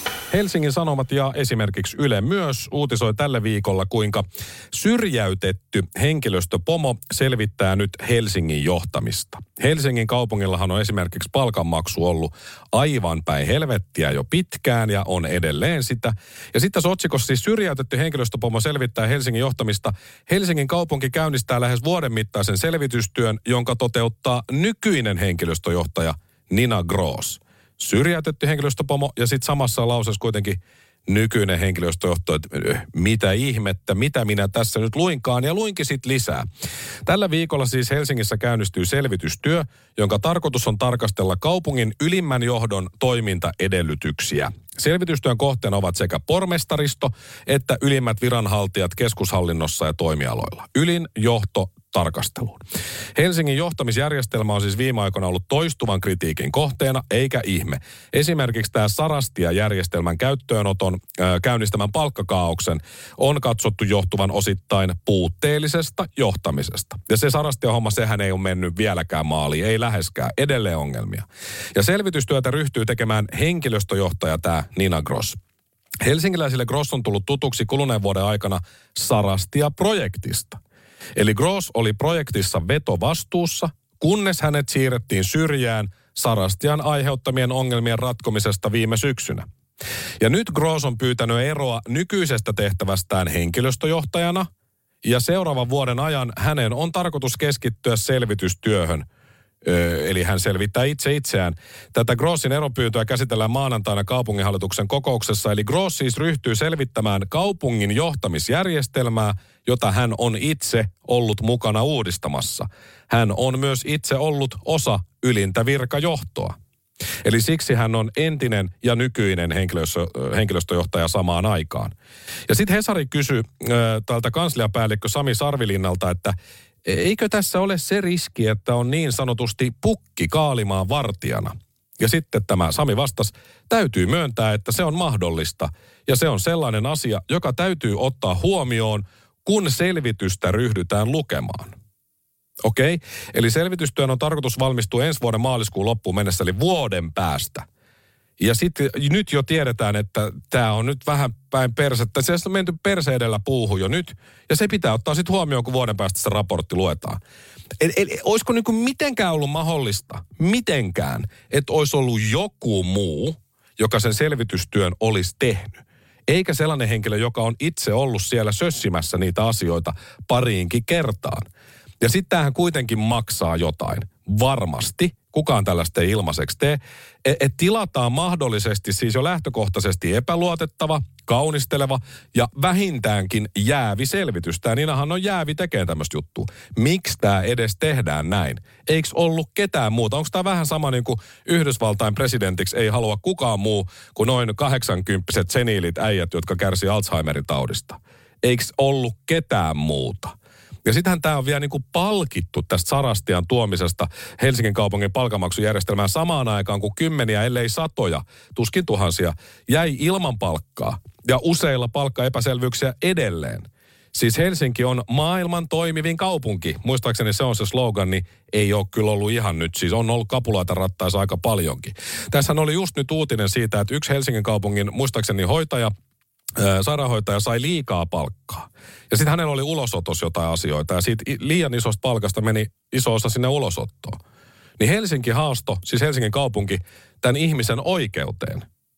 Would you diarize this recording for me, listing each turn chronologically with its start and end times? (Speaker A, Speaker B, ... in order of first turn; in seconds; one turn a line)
Speaker A: 0.3-36.5
Speaker A: 37.0-52.6
Speaker A: 53.1-75.4
Speaker A: 76.0-80.6
Speaker A: 81.2-89.5
Speaker A: 90.2-94.5
Speaker A: 95.0-99.1
Speaker A: 99.6-116.5
Speaker A: 117.2-121.9
Speaker A: 122.5-141.7
Speaker A: 142.6-147.6
Speaker A: 148.4-157.2
Speaker A: 157.8-171.4
Speaker A: 172.0-200.3
Speaker A: 200.8-225.9
Speaker A: 226.6-234.2
Speaker A: 234.8-238.7